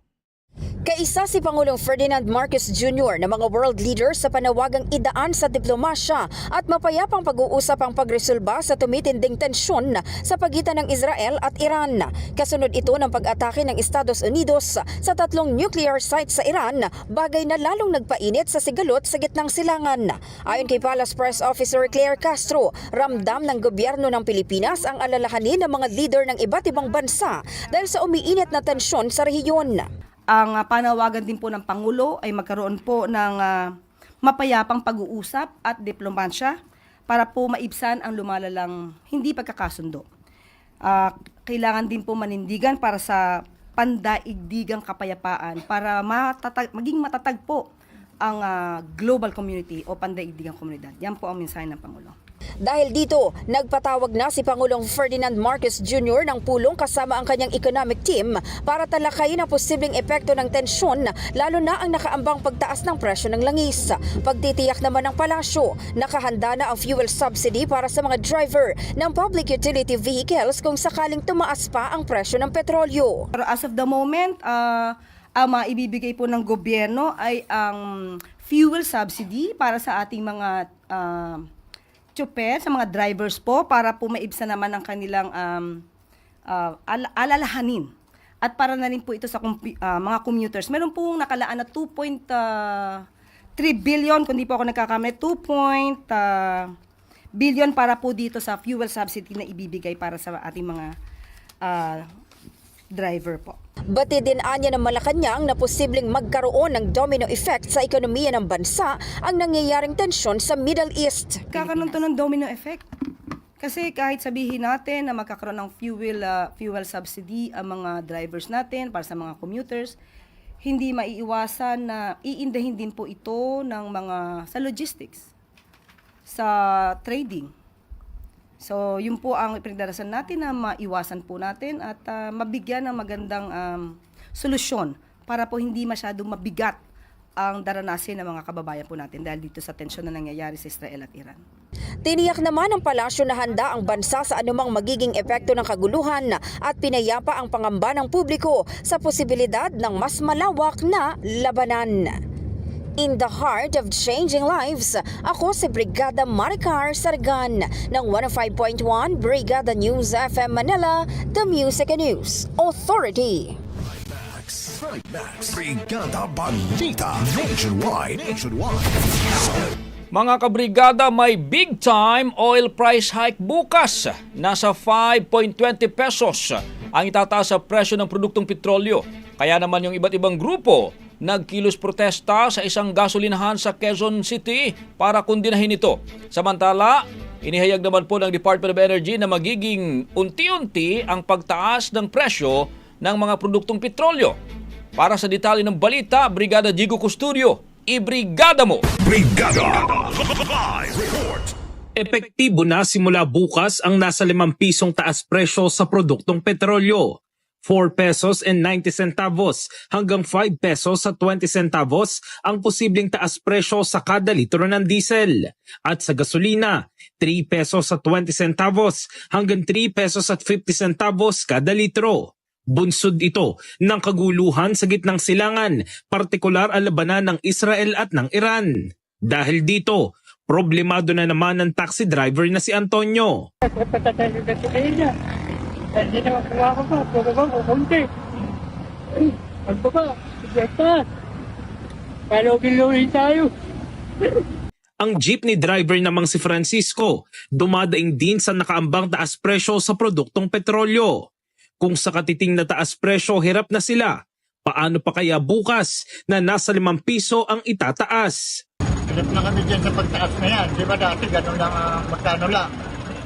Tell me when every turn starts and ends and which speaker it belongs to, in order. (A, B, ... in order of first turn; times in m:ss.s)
0:00.9-0:29.9 A
0:30.3-0:36.6 B
0:37.1-0:40.1 B
0:40.8-0:47.7 B
0:48.2-0:52.2 B
0:52.6-1:13.3 A
1:13.4-1:21.5 B
1:22.2-1:25.8 B
1:26.5-1:27.9 B
1:28.4-1:33.0 B
1:33.6-1:36.7 B
1:37.4-1:41.0 B
1:41.6-1:42.1 B
1:42.9-1:43.6 B
1:43.9-1:51.9 A
1:51.5-1:52.8 B
1:53.6-2:00.0 B
2:00.6-2:05.3 B
2:06.3-2:07.5 B
2:08.6-2:16.8 B
2:17.4-2:21.4 B
2:22.0-2:32.2 A
2:33.0-2:43.6 A
2:43.9-2:49.4 C
2:50.1-3:14.4 D
3:15.0-3:18.9 D
3:19.1-3:20.0 C
3:20.9-3:21.5 C
3:22.0-3:35.3 E
3:35.9-3:48.7 E
3:49.3-3:53.4 E
3:53.6-3:55.1 F
3:56.0-3:58.0 F
3:59.7-4:01.0 F
4:02.3-4:03.5 F
4:05.0-4:11.2 E
4:11.8-4:14.1 E
4:14.7-4:18.4 E
4:19.1-4:22.7 G